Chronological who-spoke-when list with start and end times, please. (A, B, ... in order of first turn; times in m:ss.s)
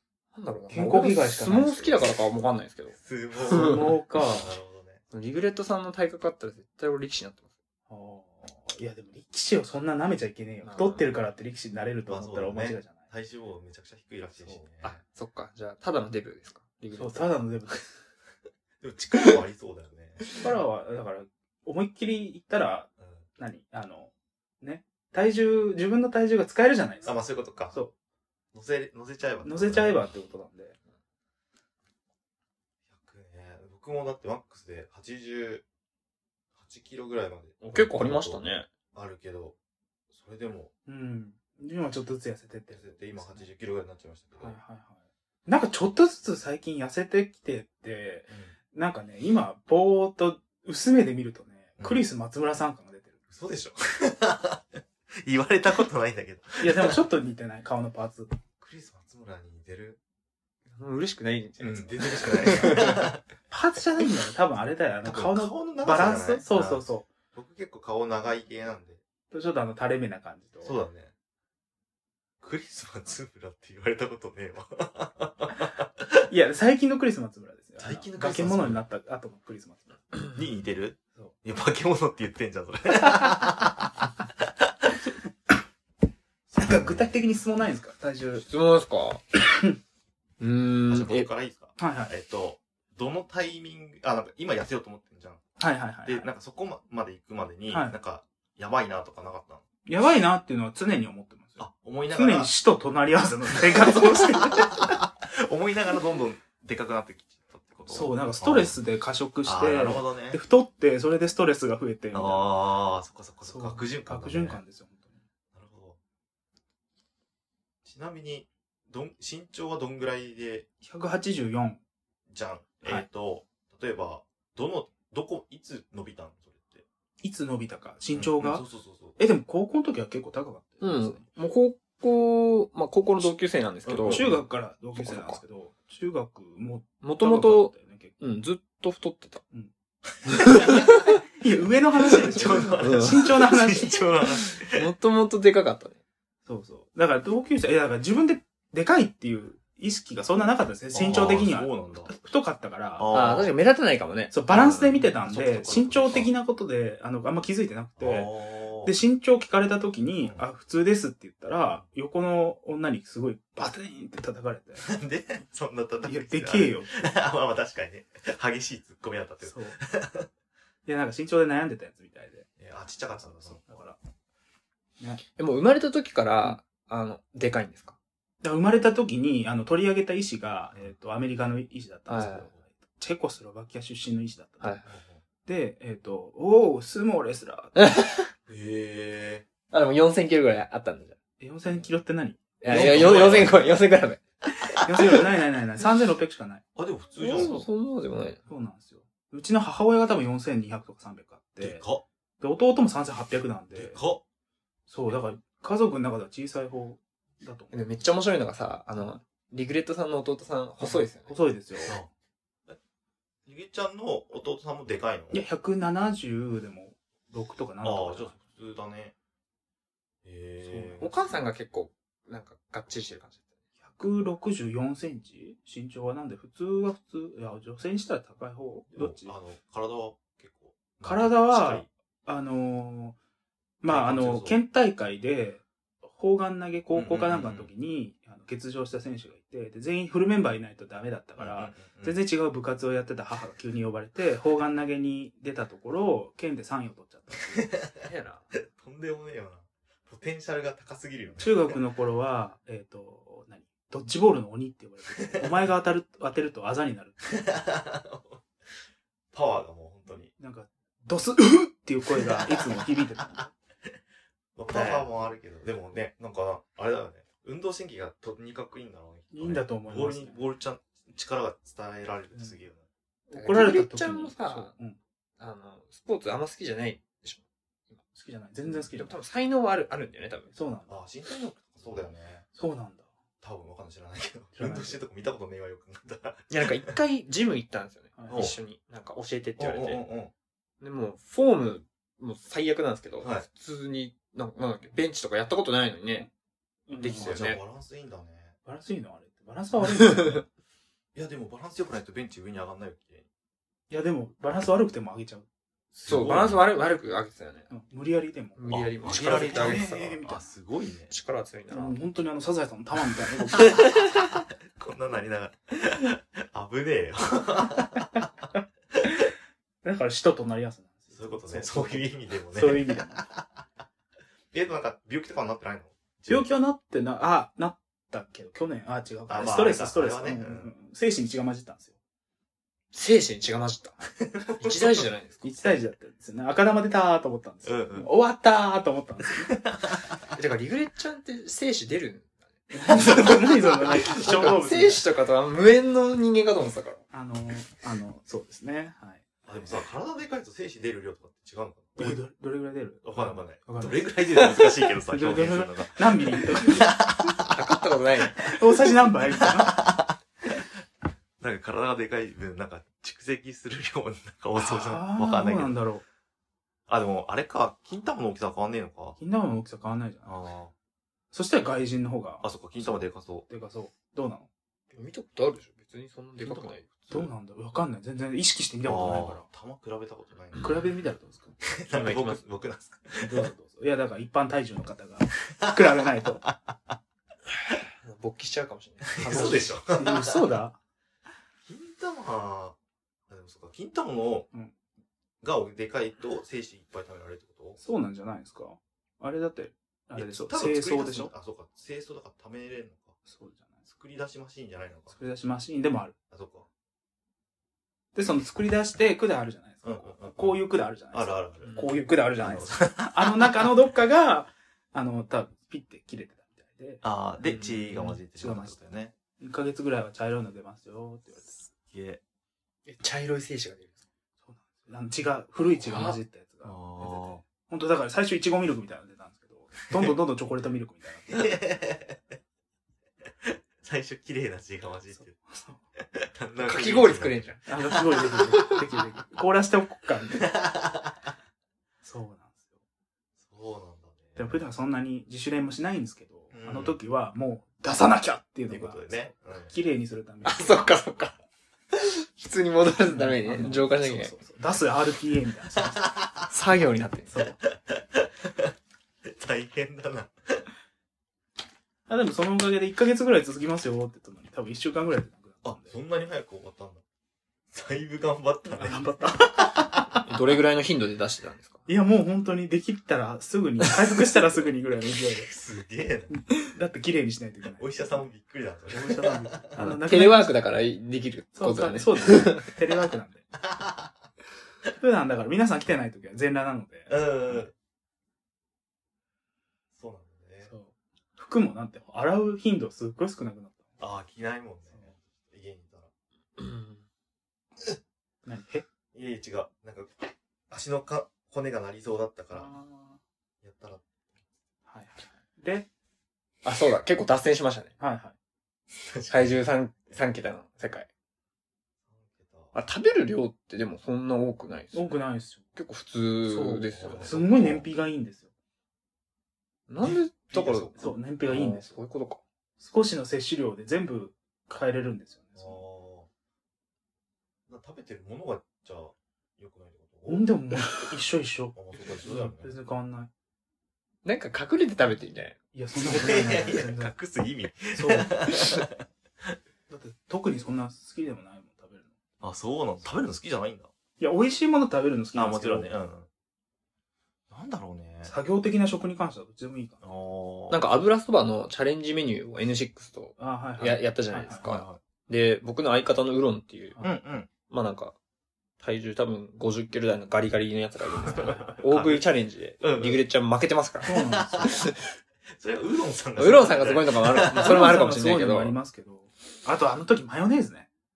0:00.3-0:03.0 A
0:00.7-0:02.1 B
0:02.9-0:05.0 C
0:03.5-0:04.5 B
0:03.5-0:03.9 A
0:05.1-0:07.4 A
0:07.9-0:13.0 B
0:10.6-0:11.0 A
0:12.1-0:15.0 C
0:14.4-0:17.4 A
0:16.9-0:17.9 B
0:18.8-0:20.4 C
0:20.3-0:27.2 B
0:23.0-0:23.2 C
0:27.0-0:27.8 C
0:28.5-0:30.0 C
0:29.4-0:30.8 B
0:32.9-0:35.6 C
0:36.6-0:39.6 C
0:37.6-0:38.7 A
0:40.1-0:40.7 C
0:40.8-0:43.5 B
0:42.7-0:44.6 C
0:44.4-0:53.2 B
0:48.3-0:48.5 C
0:51.8-0:52.0 C
0:53.3-0:57.0 C
0:56.6-0:58.3 B
0:58.6-1:00.0 C
1:00.7-1:03.0 A
1:01.6-1:03.2 C
1:03.5-1:07.1 B
1:05.0-1:09.0 C
1:09.3-1:10.8 B
1:10.6-1:11.1 C
1:12.4-1:16.2 C
1:16.3-1:20.1 B
1:17.8-1:18.8 C
1:20.3-1:24.1 C
1:26.5-1:27.1 C
1:26.6-1:28.4 B
1:28.4-1:29.2 A
1:29.4-1:29.8 B
1:30.4-1:31.3 A
1:30.9-1:35.4 C
1:31.8-1:32.1 B
1:35.6-1:36.3 B
1:36.0-1:39.6 C
1:37.7-1:38.0 B
1:39.8-1:44.9 B
1:41.6-1:42.5 C
1:43.8-1:48.8 C
1:47.9-1:52.5 B
1:49.4-1:50.4 C
1:52.1-1:54.6 C
1:53.4-1:55.2 B
1:55.5-1:56.0 C
1:57.8-2:00.7 C
2:00.8-2:01.8 B
2:02.3-2:06.8 C
2:07.2-2:08.6 B
2:08.1-2:09.2 C
2:09.2-2:11.2 B
2:10.8-2:14.3 A
2:13.8-2:14.4 C
2:14.0-2:18.2 B
2:15.0-2:15.4 A
2:17.0-2:19.4 A
2:20.3-2:20.7 C
2:20.3-2:21.0 A
2:20.3-2:24.1 B
2:22.0-2:24.8 C
2:22.7-2:23.3 A
2:24.7-2:26.0 A
2:26.4-2:33.1 B
2:30.9-2:32.1 C
2:33.0-2:33.5 C
2:33.1-2:35.0 A
2:34.3-2:44.8 B
2:34.5-2:36.3 C
2:38.0-2:38.9 C
2:44.8-2:50.3 C
2:46.0-2:46.9 B
2:49.4-2:49.8 B
2:50.8-2:52.5 B
2:52.6-2:53.6 C
2:53.2-2:54.0 B
2:55.4-2:58.0 A
2:58.4-3:04.8 B
3:02.1-3:02.5 A
3:02.2-3:02.6 C
3:04.6-3:04.9 A
3:04.8-3:05.2 C
3:05.4-3:07.8 B
3:07.8-3:08.1 A
3:08.5-3:09.5 C
3:09.7-3:11.2 A
3:11.4-3:13.5 B
3:12.6-3:15.2 A
3:12.6-3:13.6 C
3:14.8-3:16.6 B
3:16.8-3:17.7 C
3:17.2-3:18.4 A
3:18.4-3:21.8 B
3:21.6-3:22.0 C
3:22.4-3:24.0 B
3:23.7-3:24.2 C
3:24.9-3:27.7 B
3:27.7-3:31.3 A
3:31.2-3:32.0 B
3:33.5-3:35.4 C
3:35.3-3:38.3 B
3:37.8-3:39.1 C
3:40.2-3:41.1 C
3:40.6-3:41.1 B
3:41.0-3:43.4 A
3:43.8-3:49.3 B
3:48.9-3:51.9 C
3:51.0-3:53.2 B
3:53.8-4:07.7 B
3:53.9-3:54.6 C
3:56.9-3:57.7 C
4:01.4-4:02.2 C
4:08.0-4:08.4 A
4:08.7-4:11.8 C
4:11.4-4:17.5 B
4:17.6-4:18.4 C
4:19.3-4:20.3 C
4:20.4-4:23.5 B
4:22.2-4:22.9 C
4:24.6-4:32.8 C
4:24.7-4:25.1 B
4:29.3-4:30.4 B
4:32.3-4:32.6 B
4:33.3-4:35.0 B
4:33.3-4:34.7 A
4:35.4-4:38.0 A
4:38.1-4:39.2 B
4:38.7-4:40.5 A
4:40.5-4:40.9 B
4:40.9-4:42.4 C
4:42.5-4:43.1 B
4:43.4-4:46.9 C
4:44.5-4:45.0 B
4:46.5-4:50.0 A
4:48.2-4:48.4 B
4:48.3-4:48.6 C
4:49.6-4:50.3 C
4:50.8-4:56.3 A
4:53.2-4:53.5 C
4:56.9-4:57.4 B
4:57.0-4:57.6 A
4:57.1-4:58.6 C
4:58.6-5:00.5 B
5:01.1-5:03.2 C
5:03.9-5:05.4 B
5:06.0-5:06.6 C
5:06.0-5:07.7 A
5:07.7-5:10.5 B
5:08.6-5:10.0 A
5:08.7-5:11.1 C
5:11.1-5:12.0 A
5:11.7-5:13.7 B
5:14.2-5:18.1 C
5:19.8-5:23.2 B
5:21.1-5:23.4 C
5:24.5-5:26.5 C
5:26.3-5:31.9 B
5:29.3-5:30.7 C
5:32.9-5:33.9 A
5:34.2-5:35.0 C
5:34.6-5:35.6 A
5:35.4-5:39.6 B
5:37.6-5:38.1 C
5:39.6-5:40.0 C
5:40.3-5:47.0 A
5:42.7-5:45.0 B
5:47.1-5:49.3 B
5:49.4-5:52.2 C
5:52.0-5:57.0 B
5:53.0-5:57.6 C
5:57.5-5:58.4 A
5:58.3-5:59.9 B
5:58.4-6:00.1 C
6:01.4-6:05.8 C
6:04.6-6:06.0 B
6:06.9-6:09.2 C
6:09.2-6:10.4 B
6:10.2-6:10.7 C
6:11.3-6:14.5 B
6:12.4-6:13.5 C
6:14.9-6:17.2 A
6:16.4-6:17.2 C
6:17.1-6:19.5 B
6:18.8-6:20.7 C
6:20.6-6:21.6 B
6:21.7-6:23.5 C
6:21.9-6:22.4 A
6:23.2-6:26.4 B
6:28.0-6:29.7 A
6:29.2-6:30.5 C
6:29.2-6:30.8 B
6:31.6-6:32.8 C
6:33.3-6:34.5 C
6:35.4-6:37.8 C
6:37.8-6:41.3 B
6:40.1-6:43.2 C
6:43.2-6:43.7 B
6:43.9-6:45.2 C
6:45.1-6:46.1 B
6:46.3-6:46.7 C
6:48.1-6:57.0 B
6:49.8-6:53.5 C
6:51.6-6:51.9 A
6:57.0-6:59.1 C
6:57.4-6:58.2 A
6:58.2-6:58.8 B
6:59.4-7:01.5 B
7:01.6-7:02.2 C
7:02.9-7:03.9 A
7:04.4-7:11.5 B
7:05.8-7:06.2 A
7:06.6-7:07.4 C
7:11.3-7:12.2 C
7:13.4-7:15.4 C
7:15.1-7:15.8 B
7:16.1-7:18.4 C
7:16.6-7:18.8 A
7:17.7-7:20.5 B
7:22.0-7:22.7 B
7:23.4-7:24.6 C
7:24.4-7:30.9 B
7:26.5-7:27.0 C
7:28.7-7:29.7 C
7:30.4-7:31.4 A
7:31.9-7:34.3 A
7:33.1-7:36.1 B
7:36.5-7:37.6 A
7:37.3-7:38.7 C
7:39.2-7:40.6 C
7:42.1-7:46.0 B
7:45.6-7:47.0 C
7:47.7-7:49.1 C
7:48.7-7:50.2 B
7:50.3-7:51.8 A
7:51.8-7:55.5 B
7:55.4-7:56.4 C
7:56.6-7:58.2 B
7:57.8-7:59.9 C
7:58.9-8:00.6 B
7:59.8-8:02.7 A
8:01.5-8:03.5 B
8:04.9-8:07.7 B
8:07.1-8:07.7 C
8:09.9-8:10.7 C
8:10.6-8:13.9 B
8:14.0-8:16.1 C
8:16.6-8:17.0 A
8:18.4-8:18.8 B
8:19.1-8:22.7 C
8:22.5-8:23.2 B
8:23.6-8:24.0 C
8:24.8-8:25.9 B
8:26.6-8:27.9 A
8:28.0-8:28.3 B
8:29.0-8:29.6 C
8:29.3-8:31.1 A
8:32.1-8:32.7 C
8:32.7-8:35.1 A
8:34.9-8:35.6 B
8:35.7-8:37.3 A
8:36.4-8:38.5 B
8:36.9-8:37.9 C
8:39.9-8:42.4 A
8:40.0-8:41.6 C
8:41.0-8:41.9 B
8:42.8-8:45.8 B
8:45.5-8:46.3 C
8:47.7-8:50.5 C
8:50.3-8:53.3 B
8:51.7-8:52.8 C
8:54.2-8:55.6 A
8:55.7-8:57.1 B
8:56.0-8:59.0 C
8:57.9-8:58.5 B
8:59.9-9:02.1 B
9:02.4-9:03.9 C
9:04.2-9:05.9 B
9:05.3-9:06.3 C
9:07.5-9:08.3 C
9:08.2-9:10.1 B
9:10.0-9:10.9 C
9:10.7-9:17.0 A
9:13.4-9:14.7 B
9:14.6-9:15.0 C
9:17.0-9:17.5 C
9:17.7-9:18.2 A
9:18.8-9:24.7 A
9:21.2-9:23.2 C
9:21.3-9:21.8 B
9:24.0-9:24.7 B
9:24.1-9:24.9 C
9:25.5-9:27.7 C
9:26.4-9:28.7 A
9:27.6-9:30.9 B